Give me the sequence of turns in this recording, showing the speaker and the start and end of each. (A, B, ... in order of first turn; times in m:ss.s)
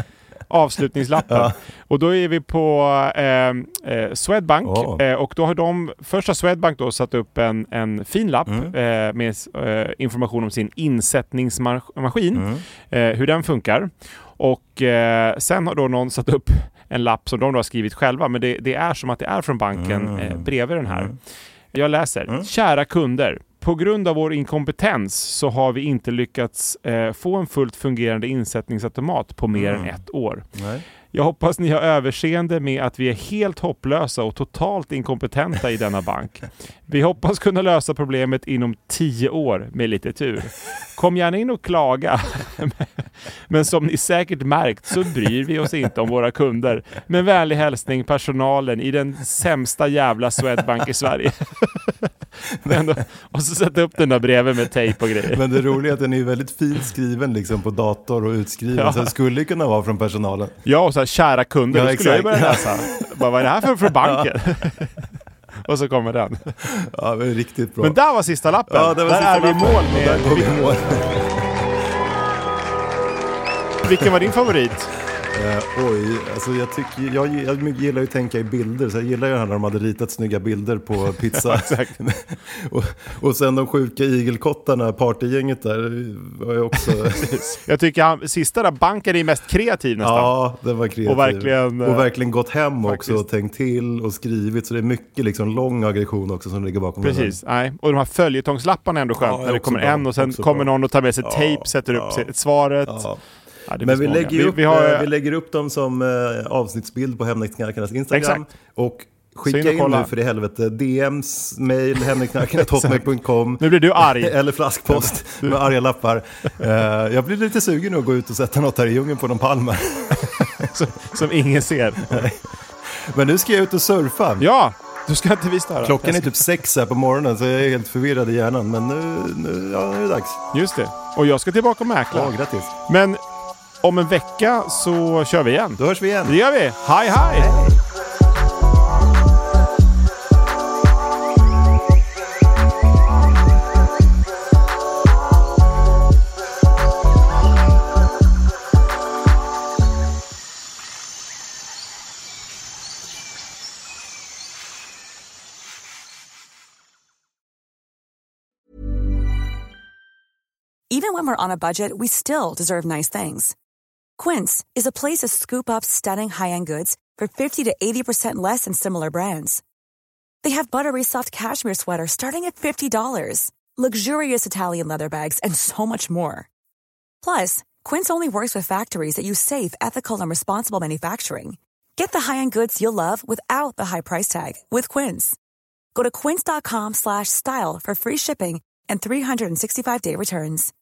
0:00.5-0:21.2 A
0:01.3-0:01.6 B
0:04.6-0:05.0 B
0:08.5-0:08.7 B
0:12.3-0:12.6 B
0:19.7-0:21.2 B
0:21.7-0:30.5 A
0:29.6-0:30.0 B
0:30.6-0:30.9 B
0:31.1-0:52.1 A
0:52.6-0:52.9 B
0:52.6-0:55.6 A
0:55.3-1:00.6 B
0:58.8-0:59.1 A
1:00.6-1:05.0 A
1:01.7-1:03.1 B
1:03.8-1:04.3 B
1:05.6-1:06.5 A
1:06.6-1:08.0 B
1:07.8-1:10.6 A
1:08.7-1:11.6 B
1:13.8-1:14.9 A
1:13.9-1:14.2 B
1:15.3-1:27.4 B
1:21.3-1:22.0 A
1:27.1-1:30.3 A
1:30.0-1:37.4 B
1:31.0-1:32.0 A
1:32.8-1:33.2 A
1:37.0-1:43.1 A
1:39.2-1:42.3 B
1:42.9-1:43.2 B
1:43.7-1:45.1 A
1:43.8-2:00.7 B
1:48.1-1:48.4 A
1:49.5-1:50.1 A
1:52.6-1:53.0 A
1:53.6-1:54.4 A
1:54.9-1:55.7 A
2:00.7-2:02.3 A
2:02.0-2:04.5 B
2:04.4-2:06.4 A
2:05.8-2:10.4 B
2:10.5-2:12.4 A
2:12.1-2:12.7 B
2:12.9-2:13.2 A
2:13.8-2:17.5 A
2:15.8-2:16.4 B
2:17.3-2:17.8 B
2:40.9-2:43.6 C
2:44.2-2:49.6 C
2:50.4-2:56.5 C
2:57.2-3:05.4 C
3:06.0-3:10.7 C